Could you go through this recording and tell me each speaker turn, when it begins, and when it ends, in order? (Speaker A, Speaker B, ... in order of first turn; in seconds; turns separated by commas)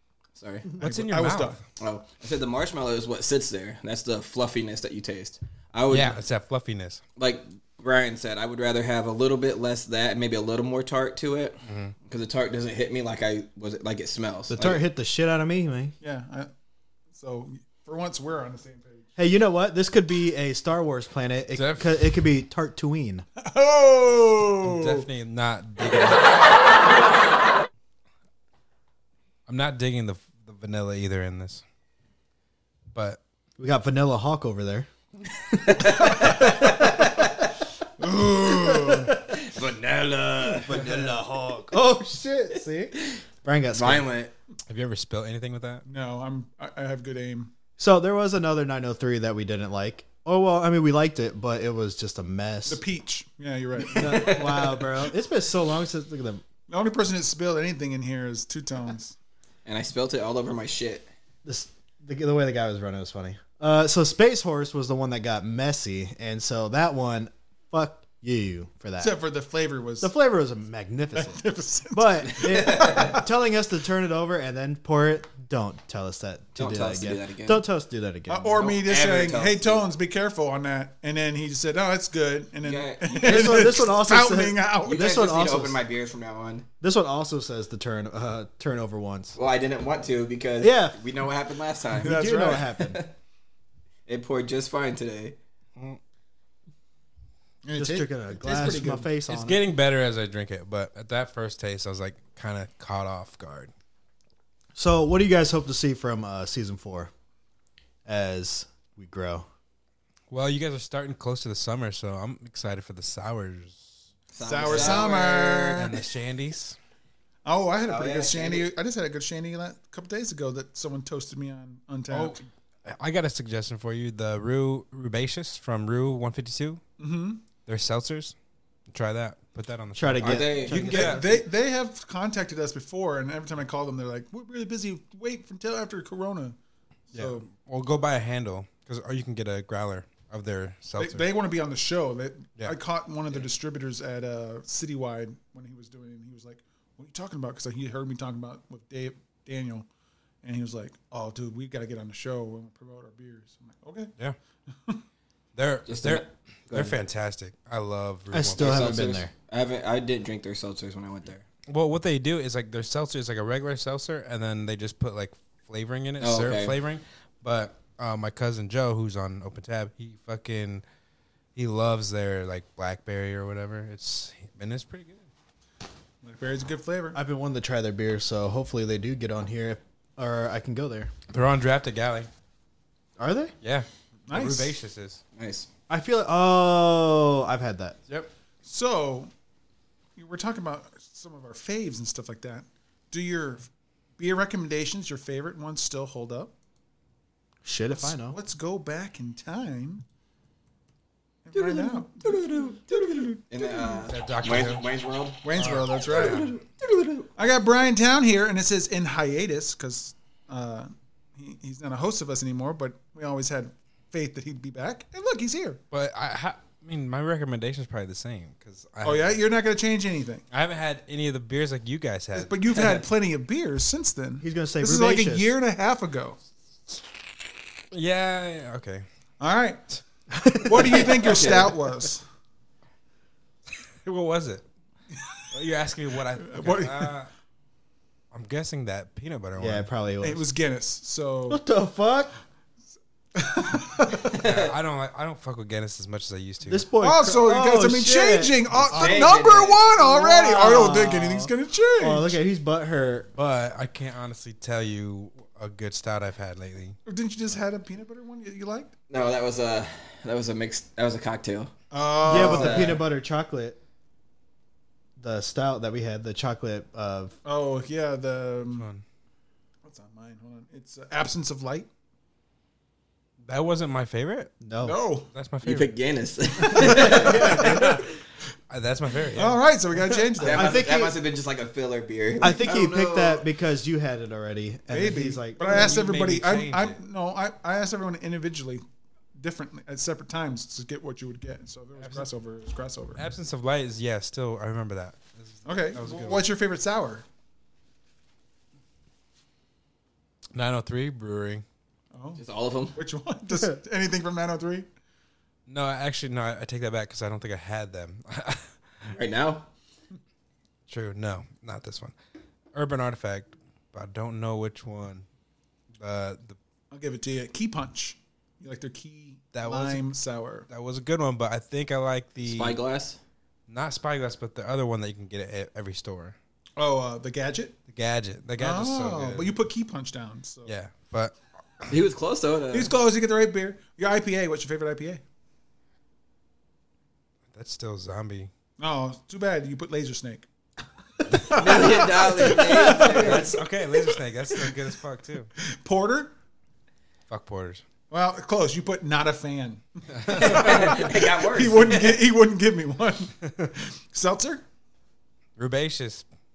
Speaker A: 0.3-0.7, Speaker B: 0.8-1.6, Speaker C: 0.8-1.6, Speaker A: 1.8-6.2, Speaker B: 5.9-7.0, Speaker A: 7.2-14.8, Speaker B: 11.6-11.9, Speaker D: 14.5-15.9, Speaker C: 16.0-16.5, Speaker C: 17.1-19.1, Speaker D: 19.2-23.2, Speaker B: 21.5-22.0, Speaker C: 23.4-25.1, Speaker B: 24.6-26.3, Speaker B: 29.5-31.6, Speaker B: 32.9-33.2, Speaker D: 33.6-34.9, Speaker D: 35.5-37.3, Speaker A: 35.8-37.0, Speaker C: 38.0-39.2, Speaker D: 38.7-39.2, Speaker A: 39.2-41.1, Speaker D: 40.6-44.0, Speaker A: 43.7-44.3, Speaker B: 44.7-45.8, Speaker C: 45.9-47.5, Speaker D: 47.8-52.8, Speaker C: 52.6-54.8, Speaker D: 53.9-56.4, Speaker C: 56.7-59.1, Speaker A: 59.6-61.1, Speaker D: 61.4-69.1, Speaker C: 69.0-70.1, Speaker D: 70.0-78.7, Speaker C: 71.1-73.2, Speaker A: 72.4-73.2, Speaker A: 76.5-77.6, Speaker C: 78.3-85.0, Speaker A: 78.5-79.8, Speaker A: 82.6-83.5, Speaker D: 83.2-85.8, Speaker A: 84.8-86.7, Speaker D: 86.8-89.3, Speaker A: 89.3-92.2, Speaker D: 90.6-91.0, Speaker D: 92.0-93.0, Speaker C: 92.0-92.7, Speaker A: 92.8-93.1, Speaker A: 94.1-95.4, Speaker C: 97.6-99.1, Speaker D: 97.8-99.6, Speaker B: 99.3-103.7, Speaker D: 104.7-107.1, Speaker D: 108.0-109.5, Speaker B: 110.3-113.9, Speaker A: 114.3-115.8, Speaker C: 114.4-116.0, Speaker B: 114.6-115.2, Speaker B: 115.7-116.8, Speaker C: 117.4-122.4, Speaker A: 117.9-118.7, Speaker B: 122.1-126.8, Speaker C: 127.0-127.4, Speaker B: 127.7-128.3, Speaker B: 128.9-131.4, Speaker D: 129.9-131.2, Speaker A: 130.2-131.2, Speaker C: 130.7-136.6, Speaker C: 137.1-137.4, Speaker B: 137.1-141.2, Speaker C: 141.0-149.9, Speaker C: 150.4-154.1, Speaker B: 155.5-159.0, Speaker A: 155.9-156.9, Speaker D: 158.3-159.3, Speaker A: 158.6-161.4, Speaker B: 161.7-170.8, Speaker A: 166.2-166.8, Speaker B: 171.6-175.3, Speaker C: 176.2-177.2, Speaker D: 177.1-181.1, Speaker B: 181.3-182.3, Speaker D: 183.2-183.5, Speaker B: 183.6-185.2, Speaker C: 184.3-184.8, Speaker A: 185.3-185.7, Speaker D: 185.9-188.0, Speaker C: 188.6-189.3, Speaker C: 190.2-196.5, Speaker D: 197.6-198.4, Speaker C: 197.9-200.0, Speaker C: 201.4-204.0, Speaker A: 201.5-207.3, Speaker B: 204.1-204.8, Speaker C: 205.4-206.5, Speaker B: 205.5-206.5, Speaker C: 207.4-215.8, Speaker B: 215.9-219.4, Speaker C: 219.0-220.4, Speaker B: 220.5-222.9, Speaker C: 222.3-226.4, Speaker D: 224.4-225.5, Speaker B: 227.9-229.0, Speaker C: 229.4-229.8, Speaker D: 230.3-231.1, Speaker C: 230.6-232.2, Speaker A: 230.8-231.7, Speaker B: 234.0-234.6, Speaker B: 235.5-237.3, Speaker C: 236.4-237.1, Speaker B: 238.3-239.9, Speaker D: 239.6-240.4, Speaker C: 240.2-241.6, Speaker D: 241.5-242.3, Speaker C: 243.3-244.4, Speaker A: 244.3-244.7, Speaker B: 244.3-246.8, Speaker D: 246.6-249.2, Speaker C: 247.0-252.4, Speaker A: 248.9-249.8, Speaker D: 249.9-253.3, Speaker B: 253.3-257.0, Speaker C: 257.1-258.9, Speaker A: 259.1-263.0, Speaker C: 261.9-263.0, Speaker D: 262.2-263.8, Speaker D: 265.2-267.4, Speaker C: 267.4-268.9, Speaker B: 268.8-269.0, Speaker C: 269.8-271.9, Speaker B: 273.4-274.6, Speaker D: 274.6-275.0, Speaker C: 274.8-275.3, Speaker B: 275.3-275.9, Speaker A: 275.6-278.0, Speaker C: 276.7-278.0, Speaker B: 276.9-278.1, Speaker D: 277.1-277.8, Speaker B: 278.7-279.6, Speaker C: 279.3-280.9, Speaker A: 280.4-283.5, Speaker D: 280.5-281.2, Speaker D: 282.4-285.9, Speaker C: 284.9-288.8, Speaker B: 285.6-287.0, Speaker C: 289.4-293.2, Speaker B: 292.0-292.3, Speaker B: 293.1-296.5, Speaker C: 295.6-297.2, Speaker B: 300.5-301.6, Speaker C: 302.1-302.4, Speaker A: 302.4-303.0, Speaker C: 302.9-304.9, Speaker B: 305.7-308.7, Speaker A: 309.1-309.7, Speaker B: 310.9-312.1, Speaker B: 312.7-315.2, Speaker B: 316.0-316.6, Speaker C: 316.9-320.7, Speaker B: 319.5-320.1, Speaker B: 320.7-322.8, Speaker A: 322.4-323.2, Speaker B: 323.7-326.4, Speaker C: 326.8-327.8, Speaker B: 327.9-329.5, Speaker C: 328.6-330.7, Speaker B: 330.6-331.9, Speaker A: 331.9-332.9, Speaker C: 332.7-335.2, Speaker B: 337.5-338.5, Speaker C: 338.8-340.5, Speaker C: 341.4-344.7, Speaker A: 341.5-343.5, Speaker B: 342.8-345.5, Speaker C: 345.7-346.3, Speaker B: 347.3-347.8, Speaker C: 348.1-354.6, Speaker B: 350.2-350.9, Speaker A: 350.3-352.2, Speaker B: 355.6-356.2